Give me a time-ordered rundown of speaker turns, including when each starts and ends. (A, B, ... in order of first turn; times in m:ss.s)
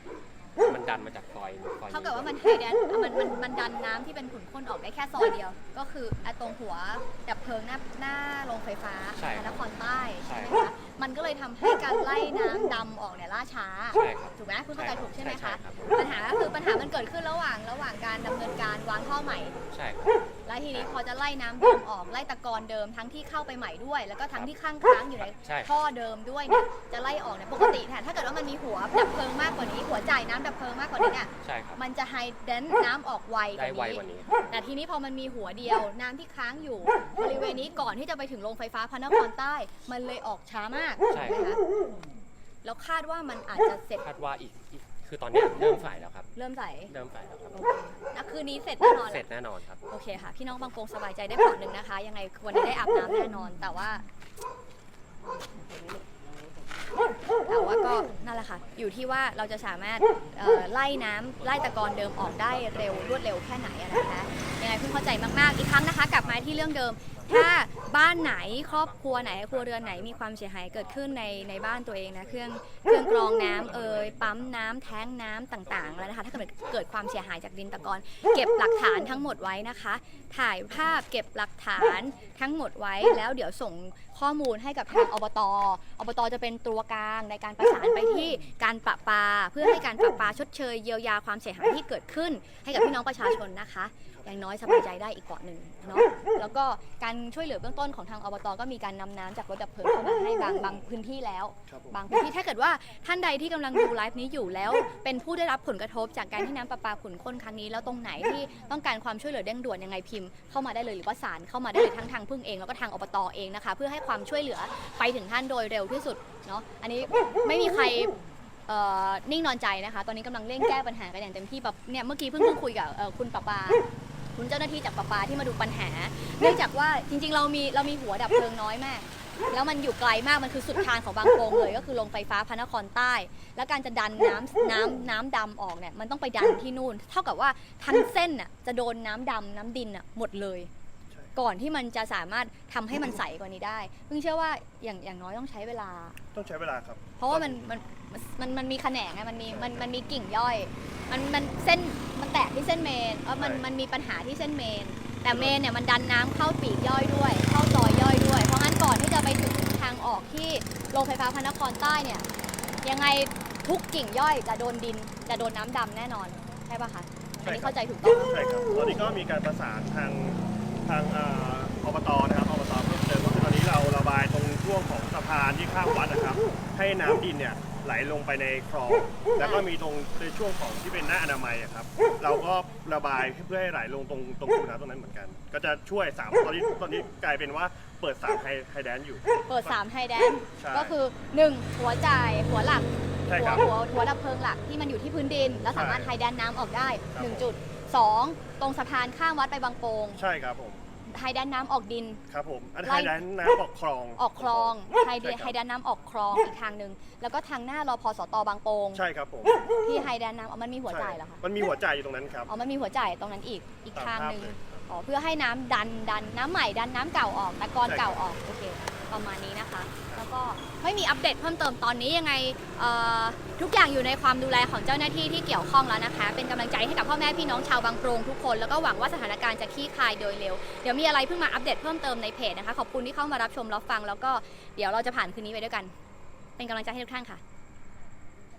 0:00.6-0:02.4 A
0:01.9-0:19.6 B
0:09.1-0:10.6 A
0:13.9-0:16.0 A
0:19.7-0:20.9 A
0:20.4-0:41.6 B
0:25.3-0:25.7 A
0:31.4-0:31.8 A
0:33.5-0:34.4 A
0:41.1-0:41.4 A
0:42.6-0:44.0 B
0:44.0-0:46.3 A
0:46.3-0:46.9 B
0:46.9-0:47.7 A
0:47.5-0:49.2 B
0:48.8-0:49.8 A
0:49.8-0:54.0 B
0:57.5-1:58.1 B
1:02.5-1:03.0 C
1:13.6-1:14.4 A
1:34.1-1:34.4 C
1:35.8-1:36.2 C
1:41.7-1:42.0 C
1:58.7-2:03.8 B
2:04.3-2:20.7 B
2:21.4-2:26.2 B
2:26.3-2:27.7 C
2:27.2-2:42.2 B
2:29.5-2:29.9 C
2:33.3-2:33.7 C
2:35.2-2:35.6 C
2:42.8-2:48.3 B
2:47.4-3:09.8 C
2:59.4-2:59.6 B
3:09.5-3:20.2 B
3:10.6-3:11.0 C
3:13.3-3:13.7 C
3:15.7-3:16.1 C
3:17.1-3:17.5 C
3:20.1-3:20.8 C
3:21.1-3:22.2 B
3:22.3-3:25.5 C
3:22.8-3:23.2 B
3:24.2-3:29.0 B
3:28.9-3:29.7 C
3:29.8-3:31.4 B
3:30.9-3:32.5 C
3:32.5-3:55.9 B
3:33.9-3:34.8 C
3:37.8-3:38.2 C
3:56.6-3:57.4 B